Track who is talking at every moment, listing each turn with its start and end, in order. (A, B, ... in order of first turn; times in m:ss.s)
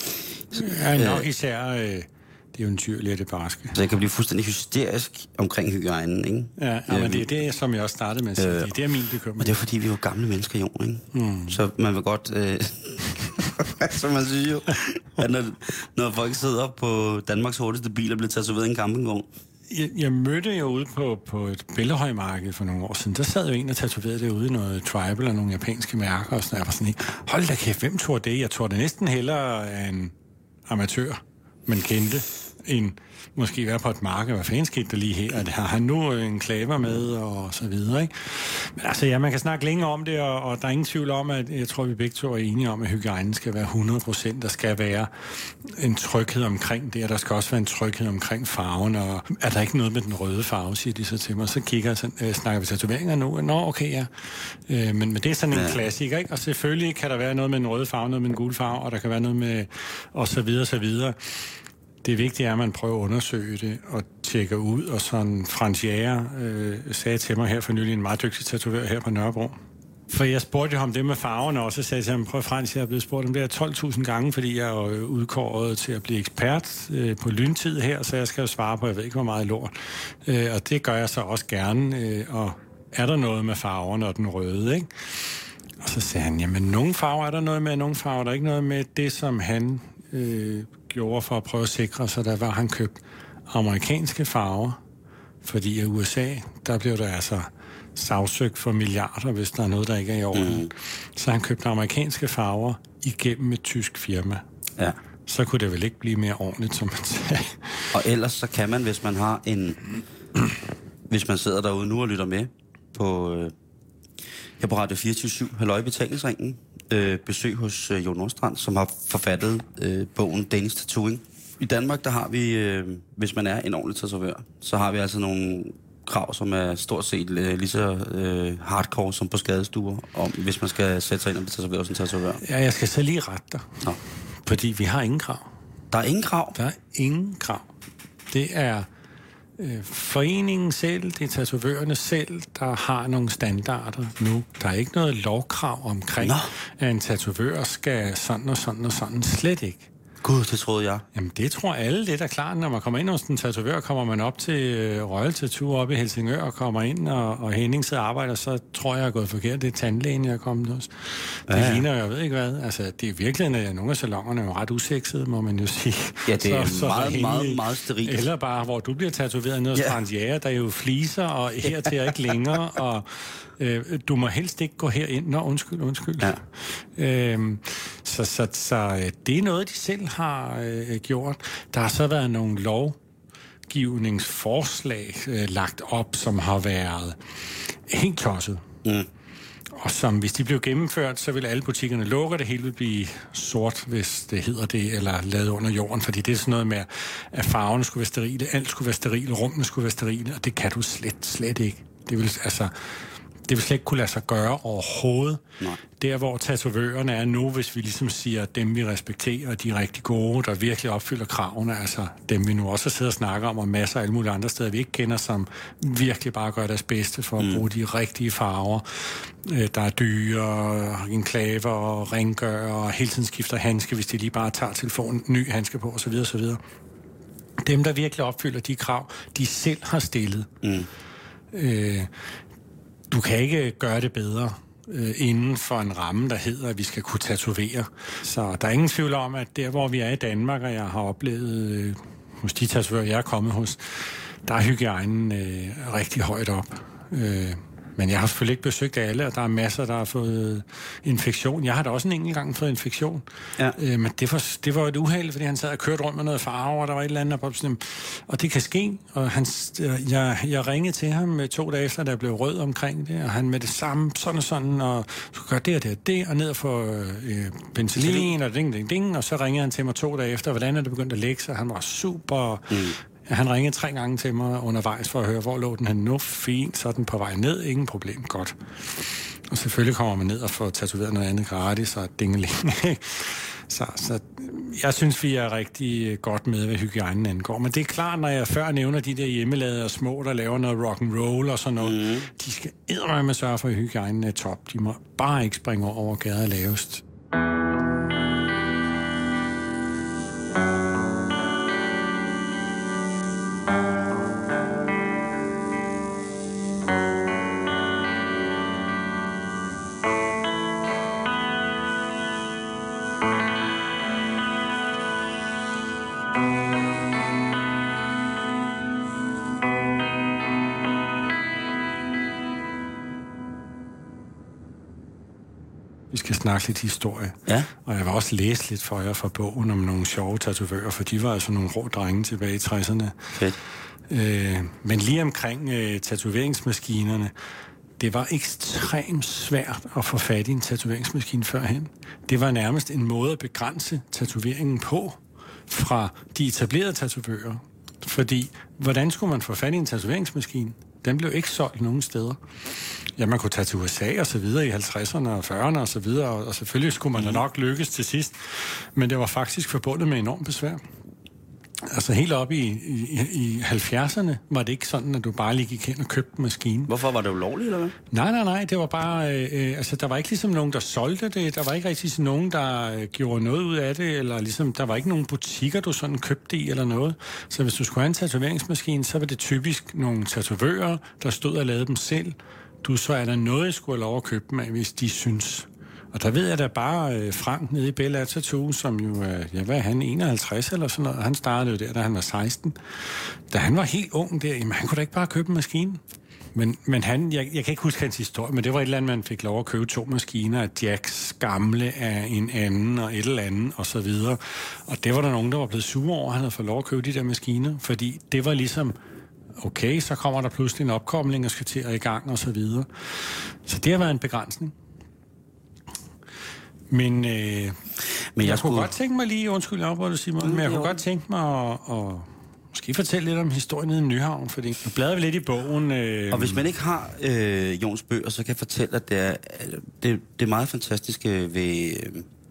0:00.5-0:01.3 A
0:00.5-0:03.8 B
0:03.7-0:07.3 A
0:06.6-0:09.6 B
0:08.4-0:08.7 A
0:09.4-0:19.3 A
0:11.1-0:11.6 B
0:19.7-0:30.1 B
0:30.7-1:01.5 B
0:55.5-0:55.8 A
1:02.0-1:09.6 B
1:10.1-1:24.9 B
1:25.8-1:34.8 B
1:35.4-1:44.4 B
1:40.3-1:40.7 A
1:45.2-1:48.0 B
1:47.9-1:49.9 A
1:51.1-1:53.5 A
1:54.6-2:12.4 A
2:12.4-2:13.8 B
2:14.4-2:15.5 B
2:15.9-2:16.6 A
2:16.5-2:17.7 B
2:18.3-2:18.9 B
2:19.6-2:29.9 B
2:26.2-2:26.5 A
2:30.2-2:31.0 A
2:31.1-3:03.0 B
2:41.5-2:41.8 A
2:46.3-2:48.2 A
3:03.7-3:07.2 B
3:07.7-3:08.6 B
3:09.8-3:22.7 B
3:23.5-3:25.4 B
3:26.0-3:46.6 B
3:37.4-3:37.6 A
3:47.6-3:50.5 B
3:50.6-3:50.9 A
3:51.5-3:52.1 B
3:53.1-4:38.6 B
4:28.0-4:28.3 A
4:32.7-4:33.0 A
4:39.5-4:57.0 B
4:51.8-4:52.3 A
5:26.1-5:33.3 B
5:34.1-5:37.3 B
5:38.0-5:52.4 B
5:53.2-6:00.8 B
6:01.9-6:06.9 B
6:06.9-6:08.0 A
6:08.1-6:32.8 B
6:33.5-6:36.0 B
6:36.5-6:49.0 B
6:49.6-6:54.7 B
6:56.9-6:57.8 B
6:58.3-6:58.9 A
6:58.4-7:06.6 B
7:00.4-7:01.0 A
7:06.3-7:12.3 A